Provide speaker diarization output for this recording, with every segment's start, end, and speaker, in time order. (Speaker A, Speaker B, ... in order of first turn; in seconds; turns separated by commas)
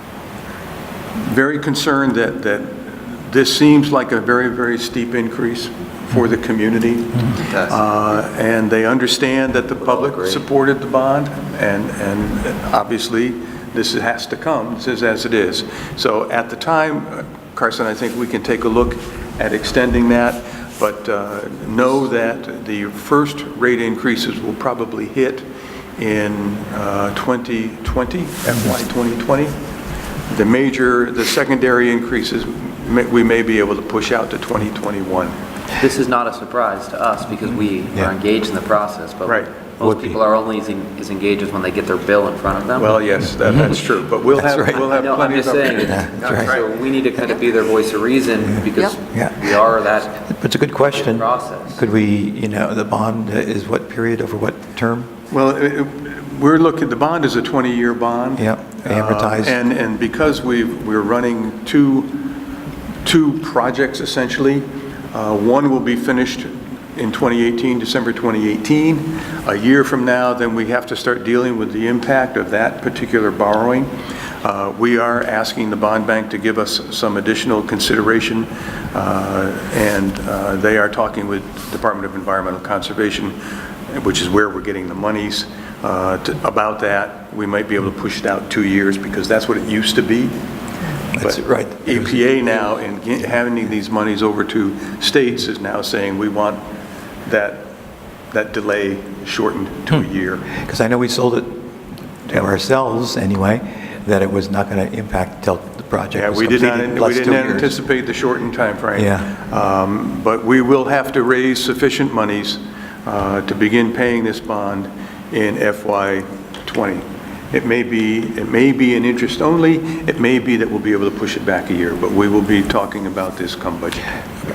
Speaker A: 1.1-29.6, Speaker B: 7.4-7.8, Speaker B: 9.8-10.4, Speaker A: 30.3-35.4, Speaker B: 35.8-43.0, Speaker A: 39.2-39.5, Speaker C: 39.8-40.2, Speaker A: 42.8-46.6, Speaker C: 44.4-44.9, Speaker B: 44.8-50.2, Speaker C: 45.8-46.6, Speaker C: 49.1-49.6, Speaker C: 50.1-55.1, Speaker B: 50.9-51.8, Speaker A: 55.3-62.4, Speaker C: 58.4-59.6, Speaker A: 63.0-90.4, Speaker C: 91.1-92.0, Speaker A: 91.2-96.6, Speaker A: 97.2-97.7, Speaker A: 98.3-100.5, Speaker C: 100.5-101.7, Speaker C: 102.2-107.8, Speaker A: 106.1-124.2, Speaker C: 109.0-109.3